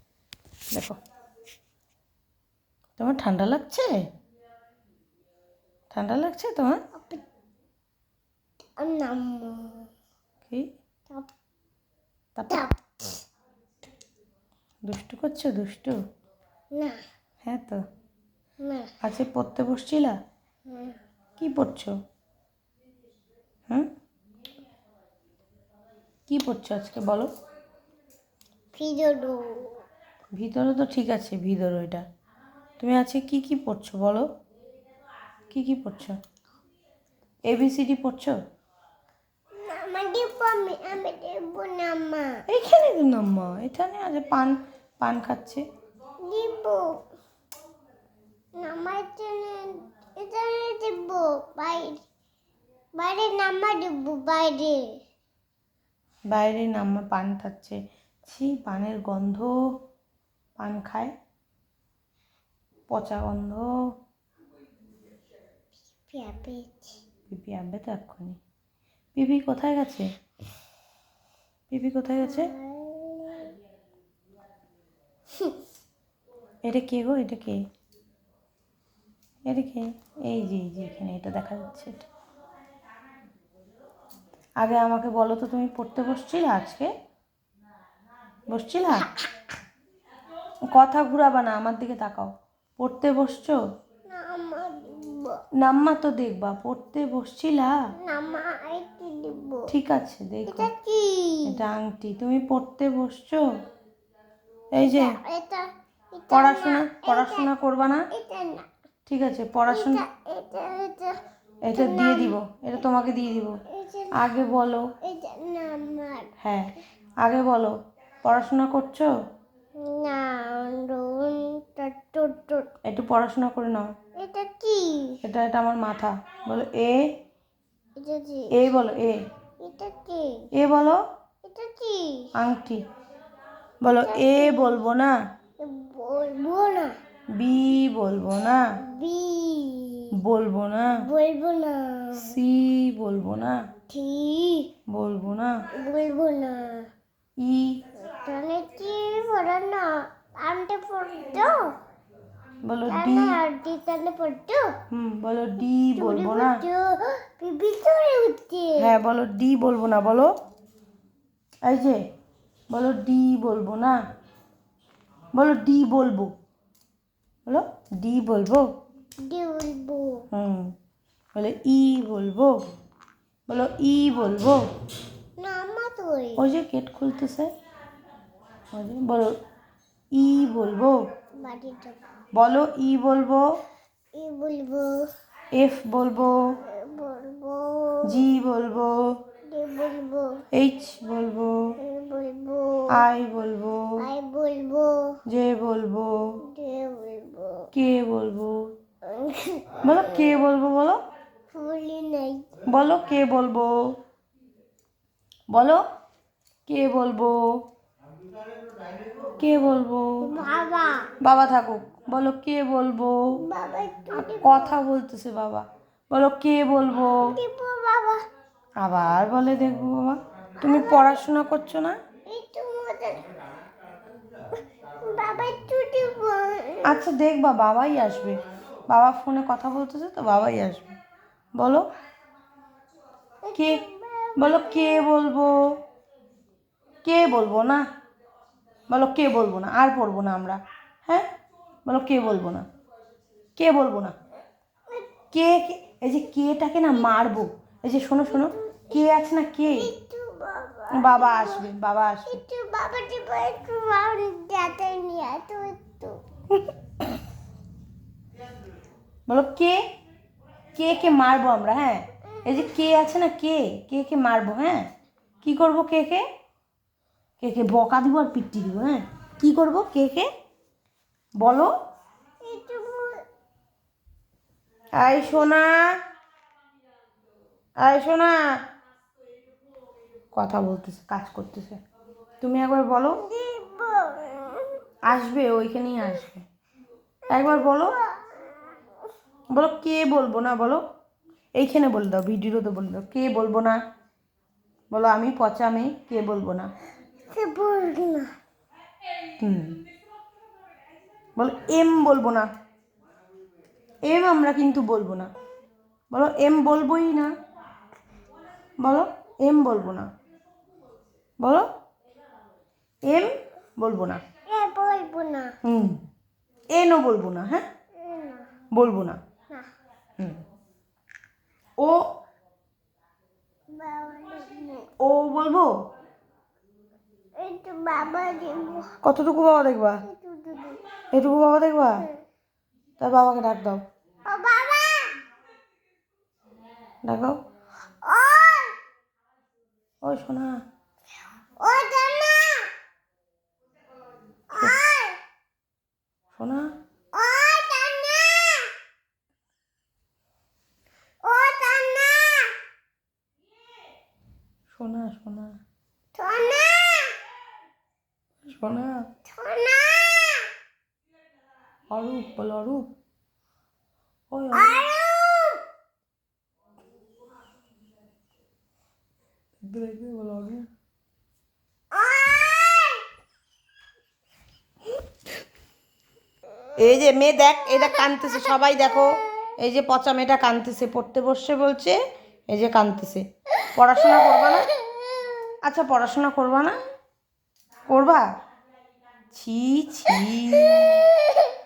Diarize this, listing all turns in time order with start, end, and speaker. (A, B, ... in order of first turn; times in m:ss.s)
0:00.7-0:01.0 A
0:03.0-0:04.0 A
0:05.9-0:06.8 A
0:06.9-0:07.2 B
0:08.8-0:09.9 B
0:12.4-0:12.7 A
0:12.5-0:12.9 B
0:14.8-0:16.0 A
0:17.4-0:17.8 A
0:18.6-0:18.9 B
0:19.0-0:20.1 A
0:20.7-0:21.0 B
0:21.4-0:21.9 A
0:26.3-0:27.3 A
0:28.7-0:29.8 B
0:30.4-0:32.0 A
0:32.8-0:34.2 A
0:35.5-0:36.2 A
0:37.5-0:38.3 A
0:39.5-0:42.3 B
0:42.5-0:45.6 A
0:46.2-0:46.9 B
0:48.6-0:52.0 B
0:53.0-0:54.8 B
0:56.3-0:59.5 A
1:00.6-1:01.1 A
1:02.9-1:03.7 A
1:06.1-1:07.0 B
1:07.3-1:08.4 A
1:09.1-1:10.1 A
1:11.7-1:12.5 A
1:12.2-1:13.5 B
1:16.6-1:17.6 A
1:19.5-1:22.0 A
1:24.6-1:26.9 A
1:28.5-1:29.1 A
1:28.9-1:29.3 B
1:30.7-1:33.6 A
1:34.1-1:35.4 B
1:35.6-1:37.8 A
1:38.0-1:39.7 B
1:39.7-1:40.7 A
1:40.5-1:41.6 B
1:41.4-1:43.4 A
1:44.7-1:45.2 A
1:44.8-1:47.5 B
1:46.3-1:48.1 A
1:48.1-1:48.7 B
1:49.1-1:50.0 A
1:49.6-1:51.2 B
1:51.6-1:53.6 A
1:51.7-1:52.4 B
1:53.7-1:54.3 B
1:54.1-1:54.9 A
1:55.0-1:56.3 B
1:56.4-1:56.7 A
1:57.2-1:59.1 A
1:59.8-2:02.7 B
2:02.8-2:03.9 A
2:04.2-2:05.2 B
2:05.2-2:07.1 A
2:08.0-2:08.7 B
2:08.5-2:09.2 A
2:09.6-2:10.4 B
2:10.5-2:11.0 A
2:11.4-2:12.3 B
2:12.4-2:12.8 A
2:13.8-2:15.1 A
2:13.8-2:14.8 B
2:15.6-2:16.9 B
2:17.4-2:18.6 A
2:18.9-2:20.1 B
2:20.1-2:21.0 A
2:20.9-2:22.3 B
2:22.2-2:23.6 A
2:23.9-2:24.7 B
2:24.9-2:25.6 A
2:25.7-2:26.8 B
2:27.4-2:27.8 A
2:28.1-2:31.7 B
2:32.6-2:33.4 A
2:32.9-2:34.7 B
2:34.9-2:36.6 A
2:36.0-2:38.9 B
2:38.8-2:40.3 A
2:41.6-2:42.0 A
2:42.7-2:44.0 A
2:45.3-2:46.3 A
2:47.5-2:48.7 A
2:49.2-2:50.3 B
2:50.3-2:50.7 A
2:51.3-2:52.6 A
2:53.5-2:54.6 A
2:55.4-2:56.4 B
2:56.4-2:57.5 A
2:58.7-2:59.3 A
3:00.1-3:01.0 A
3:01.4-3:02.0 B
3:02.3-3:03.6 A
3:04.1-3:05.1 B
3:05.5-3:06.6 A
3:06.6-3:08.3 B
3:08.0-3:09.0 A
3:09.5-3:10.4 B
3:10.5-3:11.7 A
3:11.8-3:13.0 B
3:12.9-3:14.0 A
3:14.0-3:15.2 B
3:15.3-3:16.4 A
3:16.4-3:17.7 B
3:17.7-3:18.7 A
3:19.0-3:20.3 B
3:19.8-3:21.0 A
3:21.5-3:22.5 B
3:22.6-3:24.0 A
3:25.5-3:25.8 A
3:26.7-3:27.4 A
3:29.4-3:30.1 A
3:30.2-3:31.1 B
3:31.2-3:33.2 A
3:33.4-3:34.8 B
3:34.1-3:37.3 A
3:37.2-3:38.2 B
3:38.8-3:42.0 A
3:40.6-3:41.2 B
3:42.3-3:43.3 B
3:45.0-3:47.0 B
3:46.8-3:50.9 A
3:51.6-3:51.9 A
3:53.4-3:55.1 B
3:53.5-3:53.8 A
3:54.4-3:55.6 A
3:57.0-3:57.8 A
3:58.9-4:01.2 A
4:01.8-4:02.6 A
4:03.6-4:04.1 A
4:04.9-4:05.1 B
4:05.3-4:09.9 A
4:08.2-4:09.1 B
4:09.6-4:11.7 B
4:10.9-4:12.4 A
4:12.2-4:16.2 B
4:19.3-4:19.8 A
4:20.7-4:24.8 A
4:25.4-4:26.2 A
4:27.4-4:30.3 A
4:31.4-4:31.7 A
4:32.4-4:33.2 B
4:35.0-4:35.8 A
4:37.8-4:38.4 A
4:40.3-4:41.8 A
4:42.4-4:43.2 A
4:43.1-4:44.8 B
4:45.0-4:46.4 A
4:47.3-4:47.9 A
4:47.3-4:48.9 B
4:49.5-4:50.8 A
4:51.6-4:53.8 A
4:54.9-4:56.7 A
4:57.3-4:58.3 B
4:59.4-4:59.8 A
5:01.4-5:02.5 A
5:04.1-5:05.3 A
5:06.1-5:07.3 A
5:08.8-5:10.1 A
5:11.4-5:11.6 A
5:13.1-5:14.2 A
5:14.5-5:15.6 B
5:15.6-5:16.0 A
5:16.7-5:17.6 A
5:18.0-5:18.5 B
5:18.7-5:19.2 A
5:20.2-5:20.4 A
5:23.7-5:24.9 B
5:25.0-5:25.7 A
5:27.4-5:28.9 B
5:29.0-5:30.0 A
5:30.0-5:30.8 B
5:31.1-5:32.0 A
5:33.0-5:33.8 A
5:34.2-5:35.1 B
5:37.0-5:37.4 A
5:38.0-5:38.7 B
5:40.0-5:40.6 A
5:41.6-5:42.7 B
5:44.5-5:45.2 B
5:46.3-5:46.7 A
5:47.1-5:48.7 B
5:51.2-5:52.5 B
5:54.7-5:55.6 A
5:56.1-5:57.2 B
5:58.4-5:59.0 A
5:59.2-6:00.5 B
6:01.9-6:02.8 A
6:04.3-6:04.8 A
6:04.5-6:05.6 B
6:09.6-6:10.7 A
6:11.9-6:13.0 B
6:16.8-6:22.0 A
6:18.1-6:18.8 B
6:22.5-6:24.7 A
6:24.7-6:25.0 B
6:25.6-6:26.8 A
6:27.9-6:28.2 A
6:29.3-6:31.0 A